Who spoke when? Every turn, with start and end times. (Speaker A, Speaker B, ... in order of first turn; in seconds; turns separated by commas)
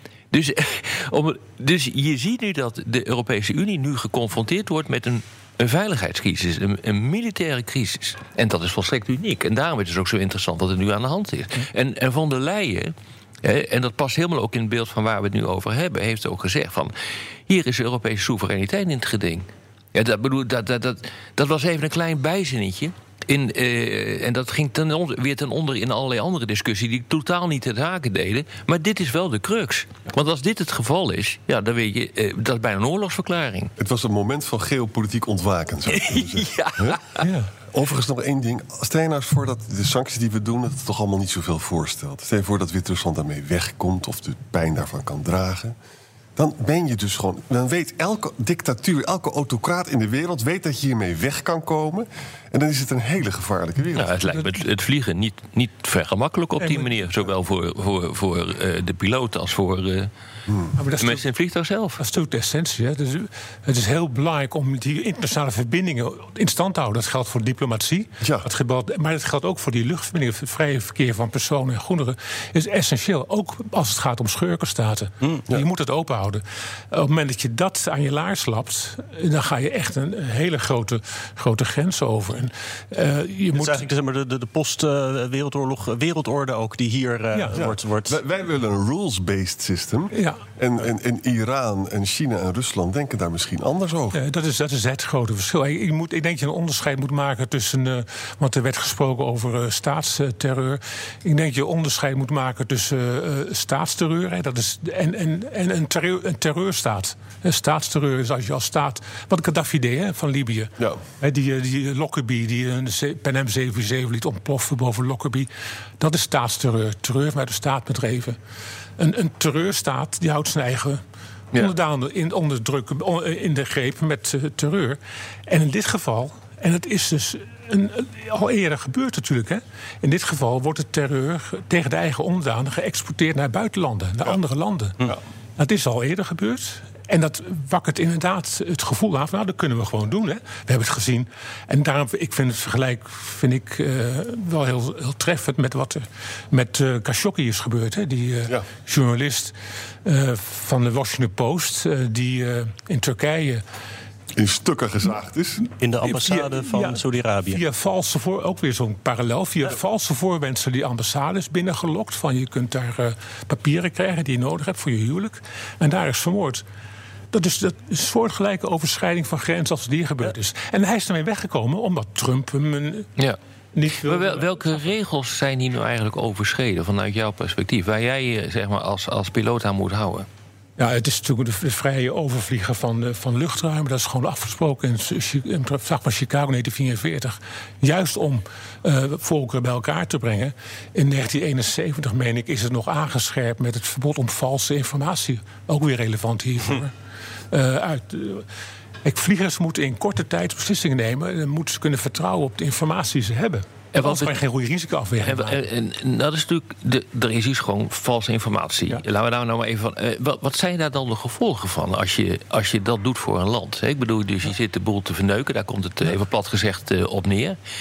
Speaker A: 0.3-16.9, Speaker A: 17.5-33.7, Speaker B: 33.8-37.0, Speaker A: 35.9-37.2, Speaker C: 37.2-37.5, Speaker B: 37.7-45.8, Speaker B: 46.4-54.1, Speaker A: 54.0-60.1, Speaker C: 56.6-57.1, Speaker C: 60.8-61.2, Speaker A: 61.0-62.0, Speaker C: 62.0-83.8, Speaker B: 68.2-68.5, Speaker D: 83.5-88.2, Speaker C: 87.3-87.6, Speaker B: 87.6-94.2, Speaker C: 90.1-90.4, Speaker C: 94.1-118.4, Speaker C: 119.0-121.0, Speaker C: 121.5-135.0, Speaker C: 135.6-149.5, Speaker C: 150.0-153.6, Speaker B: 154.3-155.7, Speaker D: 155.8-157.6, Speaker C: 156.0-166.6, Speaker C: 167.3-173.1, Speaker C: 173.7-174.9, Speaker A: 174.0-180.3, Speaker C: 180.8-196.9, Speaker C: 197.5-198.4, Speaker C: 199.0-205.6, Speaker A: 203.9-204.3, Speaker A: 205.2-217.6